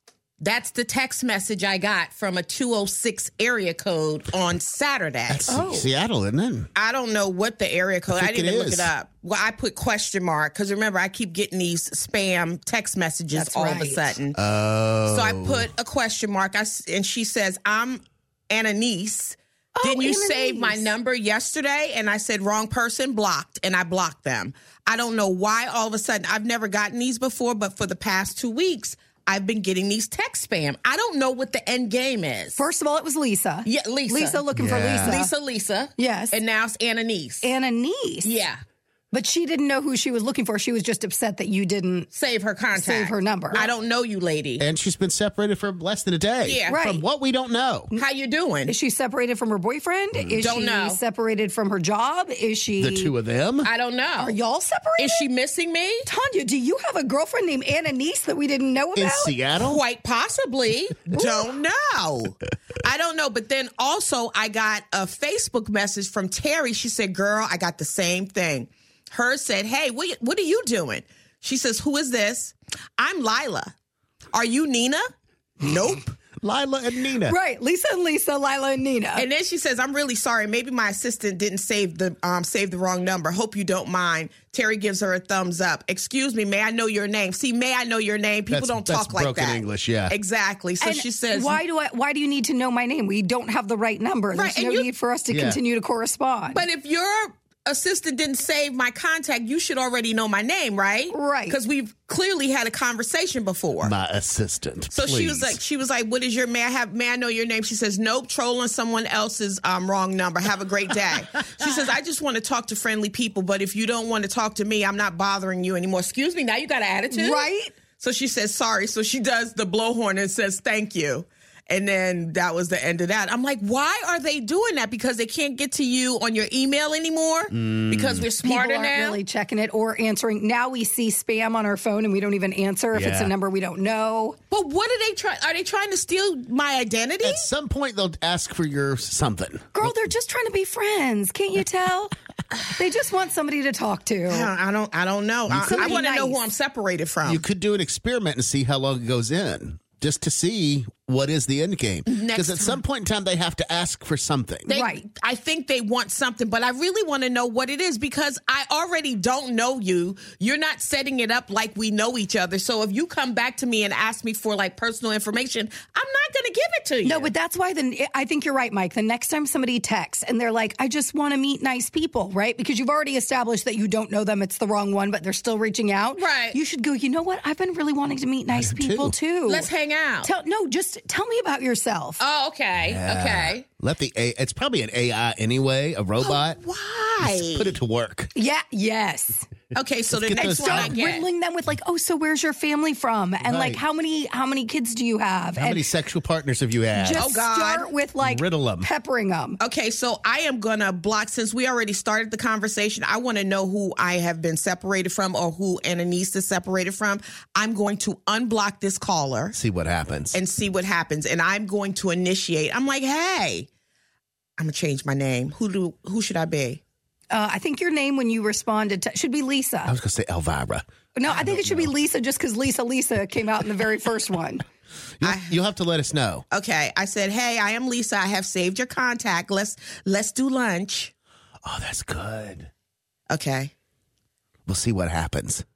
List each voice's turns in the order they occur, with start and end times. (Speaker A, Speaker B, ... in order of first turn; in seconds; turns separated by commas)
Speaker A: 0.4-5.8, Speaker B: 5.3-6.7, Speaker C: 5.5-5.9, Speaker A: 6.8-14.4, Speaker B: 8.2-8.9, Speaker C: 13.3-14.1, Speaker B: 14.3-15.7, Speaker A: 15.1-32.6, Speaker C: 19.8-20.9, Speaker C: 32.6-35.3, Speaker A: 33.7-34.4, Speaker B: 34.5-35.2, Speaker A: 35.0-37.5, Speaker C: 36.0-36.4, Speaker C: 37.4-38.3, Speaker A: 38.2-38.6, Speaker C: 39.1-42.1, Speaker A: 42.1-44.6, Speaker C: 42.7-43.7, Speaker B: 44.6-47.9, Speaker A: 46.4-46.8, Speaker C: 46.7-47.0, Speaker A: 48.0-48.7, Speaker C: 48.7-53.1, Speaker B: 50.1-50.5, Speaker A: 50.4-51.0, Speaker B: 52.8-53.7, Speaker A: 53.6-54.4, Speaker C: 54.2-55.2, Speaker A: 55.0-56.1, Speaker C: 56.0-59.4, Speaker B: 59.0-59.8, Speaker A: 59.6-73.7, Speaker C: 61.1-61.5, Speaker A: 74.3-75.0, Speaker A: 75.6-76.2, Speaker B: 76.4-77.4, Speaker C: 77.2-79.3, Speaker A: 79.2-91.6, Speaker B: 88.5-90.1, Speaker C: 90.8-96.6, Speaker A: 94.3-94.9, Speaker B: 95.3-95.6, Speaker A: 96.5-104.0, Speaker C: 101.1-101.6, Speaker B: 103.8-105.6, Speaker A: 104.9-129.2, Speaker C: 117.1-117.7, Speaker B: 127.5-128.3, Speaker C: 128.4-134.4, Speaker B: 132.9-133.3, Speaker A: 134.5-137.5, Speaker B: 137.2-140.0, Speaker C: 139.7-142.2, Speaker C: 142.7-144.5, Speaker A: 144.3-147.4, Speaker B: 145.5-146.0, Speaker C: 145.6-146.4, Speaker B: 147.2-154.7, Speaker A: 152.1-152.8, Speaker A: 154.7-167.3, Speaker C: 154.7-155.0, Speaker C: 167.0-179.7, Speaker A: 176.2-176.6, Speaker B: 178.5-179.2, Speaker A: 179.5-180.3, Speaker C: 180.2-182.2, Speaker A: 182.2-183.7, Speaker B: 182.8-186.6, Speaker A: 186.2-187.8, Speaker B: 187.2-188.3, Speaker C: 188.3-189.5, Speaker A: 189.7-191.3, Speaker B: 190.1-190.9, Speaker C: 190.6-195.9, Speaker B: 193.4-193.8, Speaker B: 195.6-197.3, Speaker C: 196.9-199.6, Speaker A: 197.2-197.9, Speaker B: 198.2-198.9, Speaker A: 199.6-209.6, Speaker B: 209.5-210.4, Speaker A: 210.3-213.7, Speaker A: 214.6-216.8, Speaker C: 217.3-220.0, Speaker B: 219.9-221.9, Speaker C: 221.2-224.6, Speaker B: 225.2-226.4, Speaker A: 225.2-225.6, Speaker A: 226.5-231.1, Speaker B: 231.7-232.7, Speaker A: 233.3-233.7, Speaker B: 234.7-235.6